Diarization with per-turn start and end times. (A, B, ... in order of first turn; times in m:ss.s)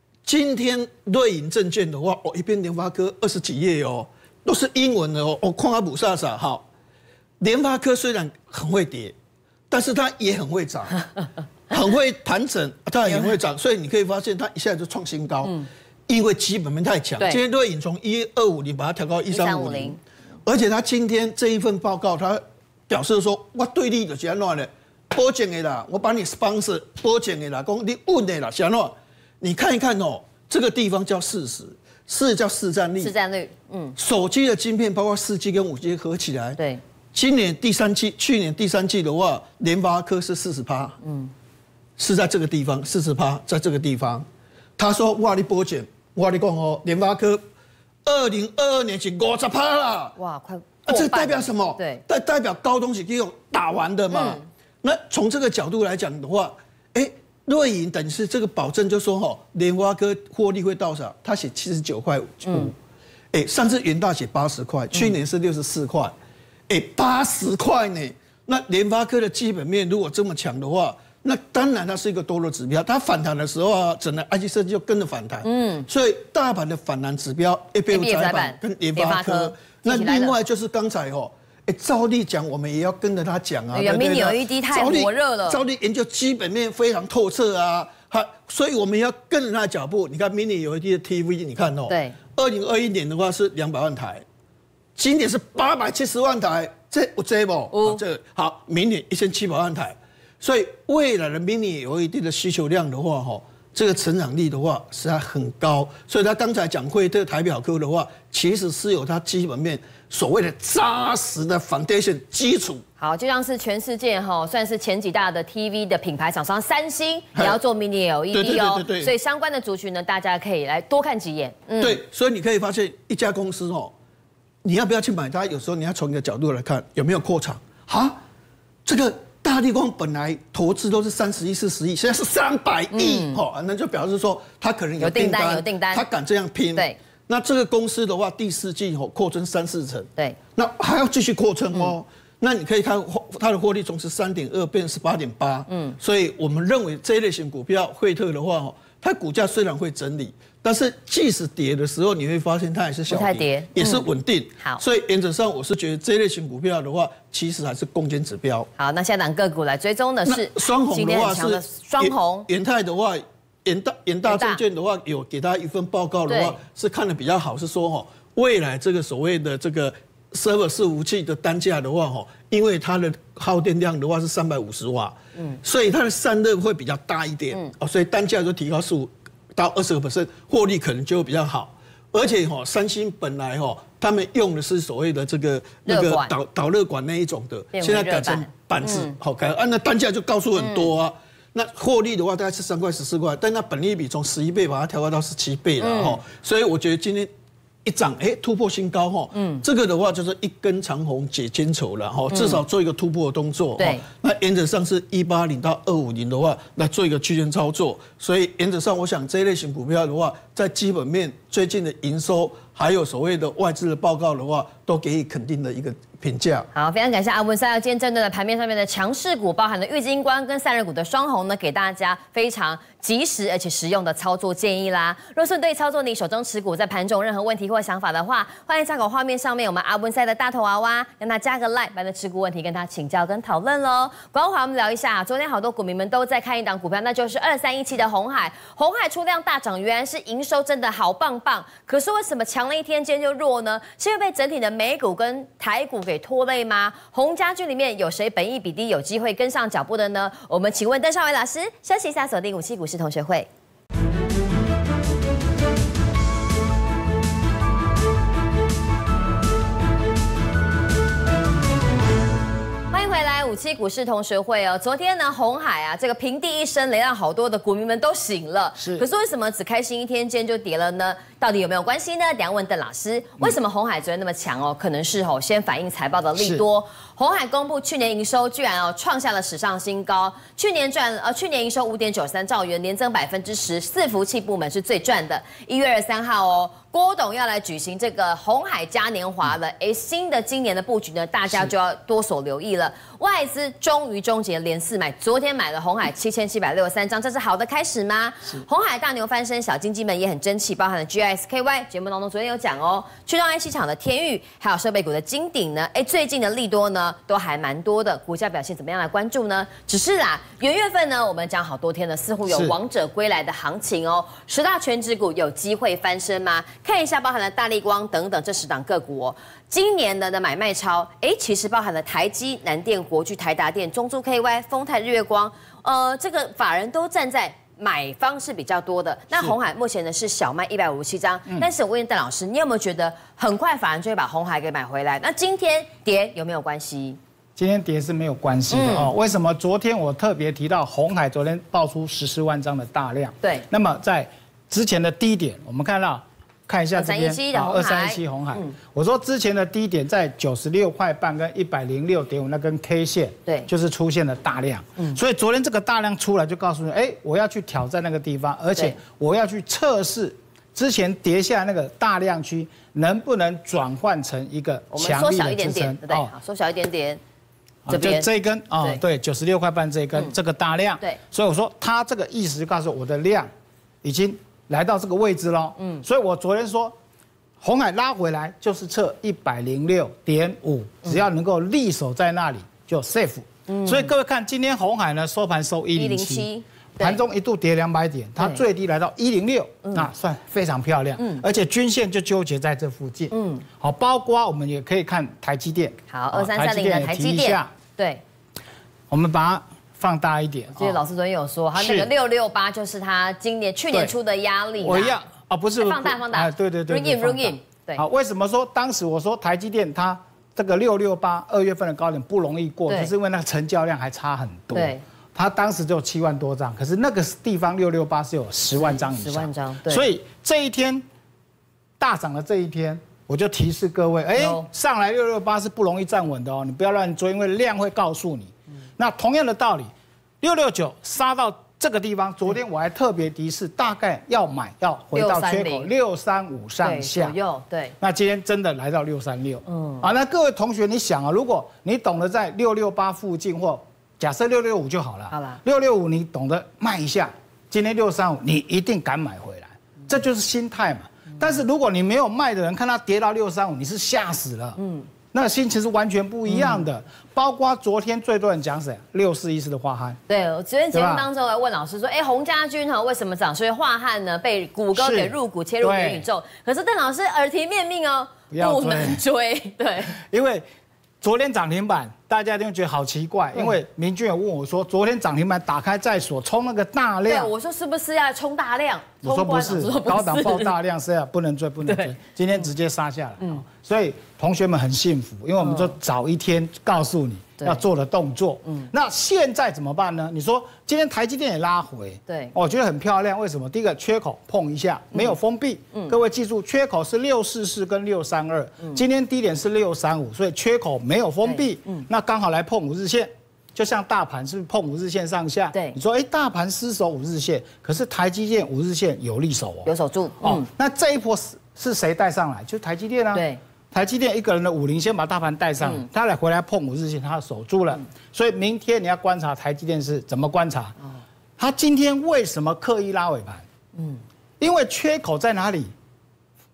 0:00.2-0:06.7 A
0:07.4-0:09.1 A
0:09.7-0:11.0 A
0:11.7-0:33.2 A
0:19.3-0:20.0 B
0:33.0-0:34.0 B
0:34.0-0:36.6 A
0:36.6-0:36.8 B
0:37.1-0:41.0 A
0:41.0-0:41.3 B
0:42.0-0:44.3 A
0:44.8-0:47.4 A
0:48.0-0:50.2 A
0:50.2-0:52.0 B
0:50.9-1:02.8 A
0:54.1-0:54.5 B
1:02.4-1:02.7 B
1:03.3-1:06.1 A
1:06.7-1:34.2 A
1:15.4-1:15.9 B
1:17.9-1:20.4 B
1:23.7-1:25.6 B
1:31.9-1:32.2 B
1:35.0-1:52.8 A
1:37.7-1:38.0 B
1:53.0-2:02.0 B
1:58.3-1:59.1 A
2:01.8-2:03.9 A
2:04.6-2:08.2 A
2:08.9-2:38.7 A
2:12.9-2:13.4 B
2:15.0-2:16.0 B
2:25.7-2:26.0 B
2:33.1-2:34.0 B
2:38.8-2:42.5 B
2:40.3-3:17.3 A
2:44.3-2:44.6 B
2:46.3-2:46.6 B
3:05.9-3:06.3 B
3:07.7-3:09.1 B
3:10.6-3:10.9 B
3:15.8-3:16.2 B
3:17.8-3:36.7 A
3:19.3-3:19.6 B
3:22.3-3:22.6 B
3:23.8-3:24.1 B
3:36.7-4:13.5 B
4:22.9-5:37.2 B
4:28.8-4:29.1 C
4:36.4-4:36.6 C
5:12.5-5:12.8 C
5:37.6-6:06.3 C
5:38.7-5:39.1 B
5:47.0-5:48.7 B
6:04.9-6:07.2 B
6:07.9-6:13.5 C
6:07.9-6:08.3 B
6:14.0-6:17.0 C
6:15.8-6:16.0 B
6:17.6-6:37.7 C
6:23.7-6:24.1 B
6:26.0-6:27.2 B
6:33.3-6:33.6 B
6:36.1-6:38.2 B
6:39.1-6:41.0 C
6:40.8-6:45.2 B
6:41.8-6:42.1 C
6:44.8-7:01.0 C
6:45.8-6:48.0 B
6:54.7-6:55.0 B
6:58.8-7:00.1 B
7:02.0-7:17.4 C
7:04.4-7:04.7 B
7:15.1-7:15.9 B
7:16.8-7:18.0 B
7:18.0-7:34.8 C
7:19.7-7:20.1 B
7:25.3-7:25.6 B
7:34.8-7:35.1 B
7:35.3-7:40.2 C
7:36.5-7:36.8 B
7:40.3-7:50.2 B
7:40.9-7:41.3 C
7:45.0-7:46.3 C
7:48.5-7:49.2 C
7:50.2-7:50.6 C
7:51.2-7:57.5 C
7:57.3-8:00.7 B
7:59.2-8:41.0 C
8:01.8-8:02.2 B
8:05.6-8:06.0 B
8:12.3-8:12.5 B
8:21.4-8:22.1 B
8:25.7-8:26.0 B
8:29.9-8:30.7 B
8:33.3-8:33.6 B
8:35.8-8:36.1 B
8:41.6-8:43.6 C
8:44.0-8:44.2 B
8:44.6-8:45.9 C